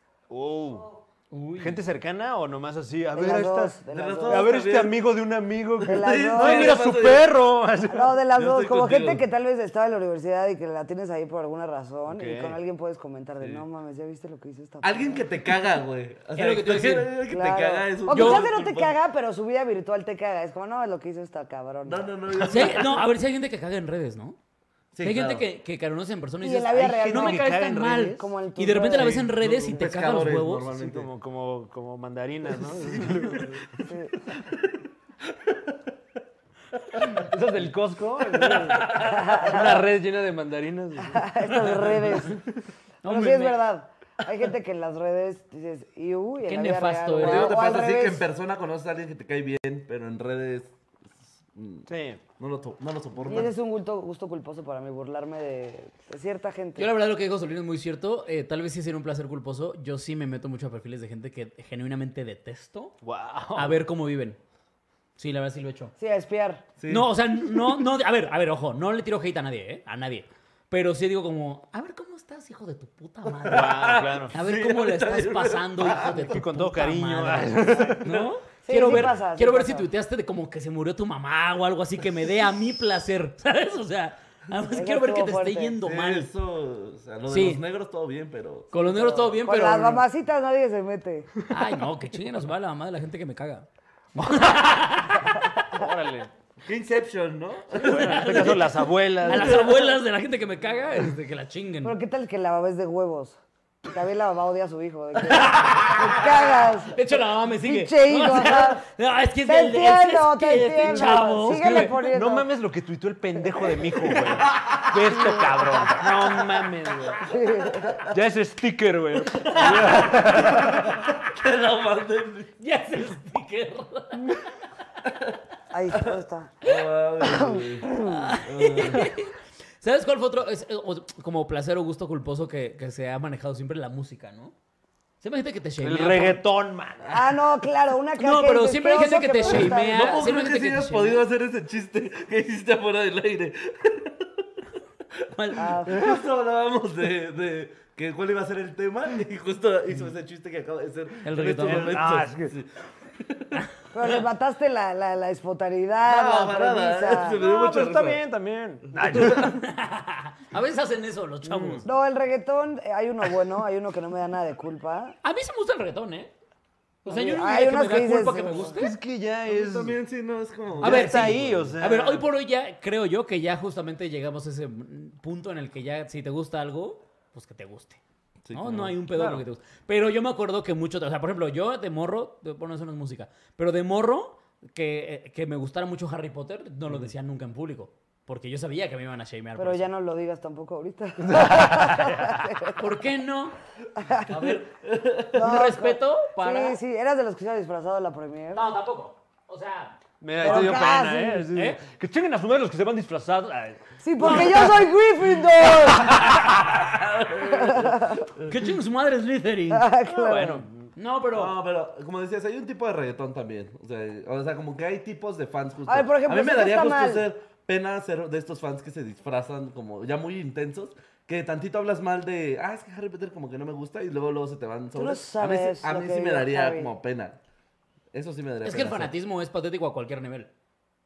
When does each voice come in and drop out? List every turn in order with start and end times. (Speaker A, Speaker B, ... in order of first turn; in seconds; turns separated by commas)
Speaker A: 0.3-0.9, Speaker B: 1.3-1.8, Speaker A: 1.6-8.2, Speaker C: 3.1-4.5, Speaker D: 3.9-5.1, Speaker D: 5.8-7.3, Speaker C: 5.8-6.8, Speaker C: 7.9-15.2, Speaker D: 8.3-9.2, Speaker A: 12.1-12.6, Speaker D: 14.8-18.9, Speaker B: 16.4-17.1, Speaker C: 17.3-22.7, Speaker B: 18.1-18.5, Speaker D: 21.9-23.1, Speaker B: 22.4-24.4, Speaker D: 24.9-25.4, Speaker B: 25.0-30.7, Speaker C: 26.4-27.5, Speaker A: 26.7-28.3, Speaker C: 28.2-29.3, Speaker D: 28.9-31.1, Speaker A: 30.7-33.8, Speaker D: 33.0-33.6, Speaker C: 33.9-34.2, Speaker A: 37.1-42.4, Speaker C: 38.5-39.9, Speaker C: 41.1-42.4, Speaker B: 43.0-43.6, Speaker C: 43.0-48.3, Speaker B: 46.4-47.7, Speaker D: 47.2-50.7, Speaker D: 51.5-51.9, Speaker A: 51.9-52.2, Speaker D: 52.4-53.5, Speaker C: 53.2-56.9, Speaker B: 56.8-62.9, Speaker A: 63.0-63.8, Speaker B: 63.5-64.4, Speaker B: 65.2-65.9, Speaker C: 66.0-66.6, Speaker D: 66.8-67.1, Speaker B: 66.9-86.3, Speaker D: 73.4-76.3, Speaker A: 73.5-74.3, Speaker A: 75.9-78.1, Speaker C: 77.7-78.0, Speaker C: 78.6-79.9, Speaker C: 84.7-85.8, Speaker D: 85.8-88.7, Speaker B: 87.3-87.6, Speaker B: 88.7-90.1, Speaker C: 88.7-91.3, Speaker B: 91.5-95.3, Speaker C: 95.4-95.9, Speaker A: 95.7-96.3, Speaker D: 96.6-98.6, Speaker A: 97.7-99.8, Speaker B: 97.8-102.0, Speaker C: 101.8-108.8, Speaker B: 105.3-106.2, Speaker B: 106.9-112.0, Speaker C: 109.4-112.5, Speaker A: 110.9-117.2, Speaker D: 114.5-114.9, Speaker C: 115.1-115.9, Speaker C: 117.3-118.0, Speaker A: 118.1-121.0, Speaker D: 119.3-122.5, Speaker B: 122.6-124.3, Speaker C: 125.7-126.6, Speaker D: 126.6-129.1, Speaker C: 127.2-128.3, Speaker B: 128.0-134.5, Speaker B: 135.2-136.4, Speaker A: 135.8-137.2, Speaker C: 137.1-140.2, Speaker B: 138.2-141.2, Speaker D: 139.4-144.4, Speaker B: 145.3-145.8, Speaker C: 145.6-146.1, Speaker D: 145.8-153.6, Speaker A: 145.9-146.2, Speaker B: 151.2-152.0, Speaker A: 151.6-152.6, Speaker C: 153.9-157.4, Speaker D: 156.0-158.2, Speaker A: 157.3-159.6, Speaker B: 159.1-161.9, Speaker A: 161.4-161.9, Speaker C: 161.8-165.2, Speaker B: 165.2-166.3, Speaker B: 167.1-169.0, Speaker C: 167.1-168.8, Speaker A: 168.7-170.0, Speaker D: 169.5-171.8, Speaker A: 170.8-172.3, Speaker B: 170.8-178.0, Speaker D: 178.5-179.0, Speaker B: 178.5-189.9, Speaker A: 179.1-179.4, Speaker C: 189.6-192.8, Speaker A: 191.2-192.4, Speaker B: 192.8-193.6, Speaker C: 194.0-194.3, Speaker B: 194.2-194.7, Speaker D: 194.8-195.4, Speaker C: 195.3-198.7, Speaker B: 195.4-196.8, Speaker B: 198.5-200.8, Speaker A: 200.2-204.9, Speaker C: 200.4-201.5, Speaker B: 201.5-201.8, Speaker C: 204.0-206.6, Speaker D: 206.5-208.6, Speaker C: 207.3-208.3, Speaker B: 208.5-209.9, Speaker C: 209.7-210.6, Speaker A: 210.1-210.9, Speaker B: 211.0-211.5, Speaker D: 211.3-227.4, Speaker C: 215.9-217.3, Speaker C: 224.9-226.9, Speaker D: 228.1-229.1, Speaker B: 228.6-230.5